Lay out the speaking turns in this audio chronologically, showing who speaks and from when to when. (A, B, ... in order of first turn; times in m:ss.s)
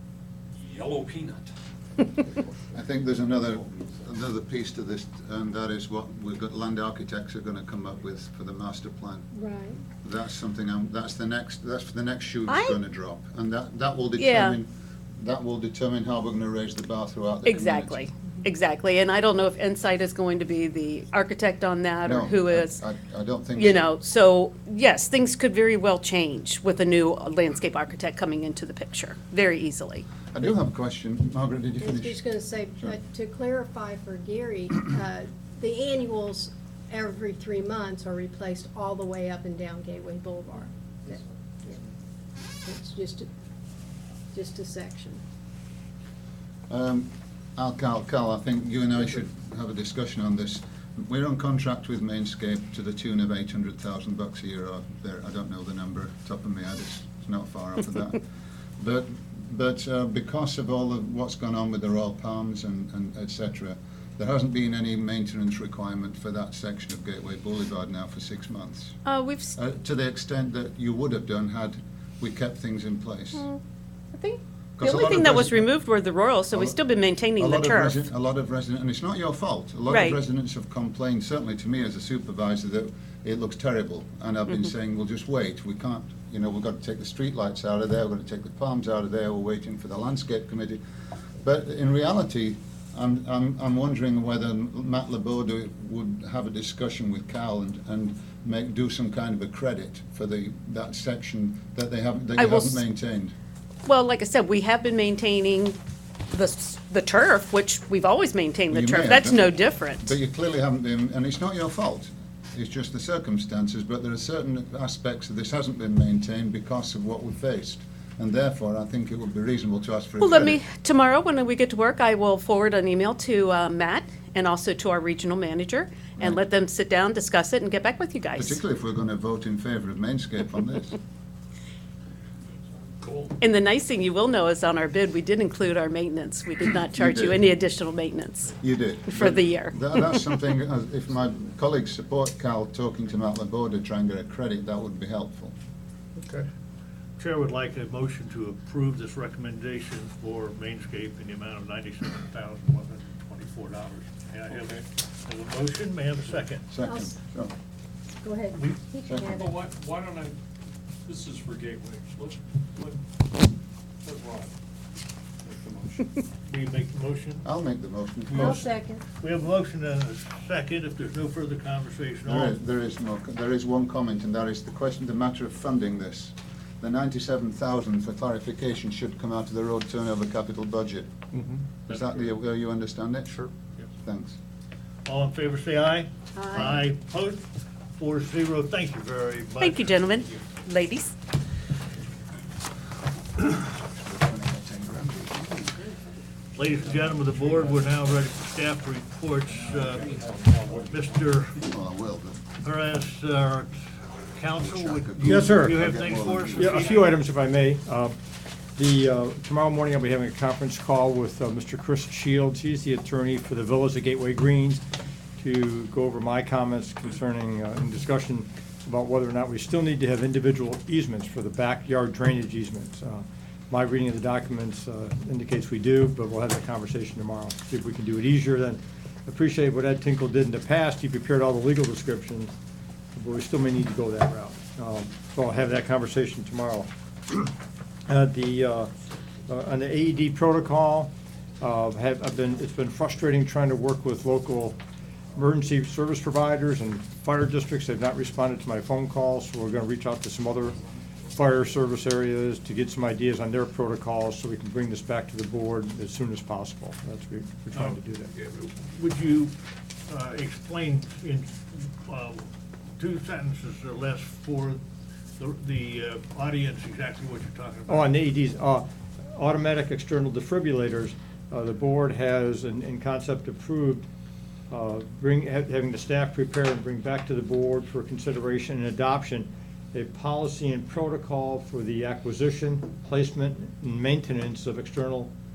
0:00.5-0:01.5 A
0:02.7-0:09.3 B
0:09.3-0:09.8 C
0:10.0-0:18.1 B
0:12.5-0:12.8 D
0:14.2-0:14.6 D
0:17.4-0:22.8 D
0:22.0-0:23.8 B
0:23.6-0:30.1 D
0:30.3-0:32.2 B
0:31.8-0:41.8 C
0:42.6-0:43.3 C
0:44.3-0:45.2 C
0:46.7-0:58.2 B
0:58.8-1:09.0 B
1:09.0-1:09.6 D
1:09.6-1:13.5 B
1:13.3-1:13.6 D
1:14.1-1:18.0 D
1:14.8-1:15.7 B
1:16.5-1:16.8 B
1:17.4-1:30.8 B
1:19.9-1:20.2 D
1:31.4-1:43.3 B
1:42.4-1:42.8 D
1:43.8-1:45.8 D
1:46.3-1:50.1 D
1:48.7-2:00.6 B
2:00.2-2:08.6 D
2:08.3-2:11.0 B
2:13.0-2:13.3 A
2:13.4-2:18.6 D
2:16.9-2:17.4 B
2:18.6-2:25.5 B
2:19.1-2:20.2 D
2:26.2-2:26.4 E
2:27.2-2:36.7 E
2:34.5-2:34.8 A
2:36.7-2:37.5 B
2:36.8-2:37.2 C
2:38.2-2:39.6 C
2:38.5-2:38.8 E
2:39.0-2:39.3 B
2:39.3-2:40.3 A
2:41.0-2:43.0 A
2:44.0-2:44.5 A
2:45.4-2:46.0 A
2:46.4-2:47.4 E
2:47.4-2:48.6 B
2:48.3-2:52.5 E
2:48.3-2:49.0 C
2:52.2-3:01.1 B
3:01.9-3:03.3 B
3:01.9-3:02.2 E
3:04.0-3:04.4 B
3:05.0-3:07.4 E
3:06.4-3:06.7 C
3:08.0-3:10.0 E
3:09.6-3:11.1 D
3:13.5-3:15.7 B
3:16.5-3:20.1 E
3:17.1-3:17.9 A
3:19.8-3:21.0 A
3:20.7-3:21.6 E
3:21.6-3:22.4 B
3:22.6-3:23.7 E
3:24.3-3:27.1 E
3:24.6-3:27.0 B
3:25.2-3:25.7 F
3:26.5-3:28.2 F
3:28.8-3:34.8 F
3:35.4-3:52.5 F
3:53.1-3:56.9 F
3:58.1-3:58.9 F
3:59.5-4:04.8 F
4:05.4-4:10.8 F
4:11.3-4:18.3 F
4:17.7-4:19.5 E
4:20.1-4:22.4 E
4:23.0-4:24.8 E
4:25.4-4:28.2 E
4:27.9-4:34.0 F
4:34.7-4:45.3 F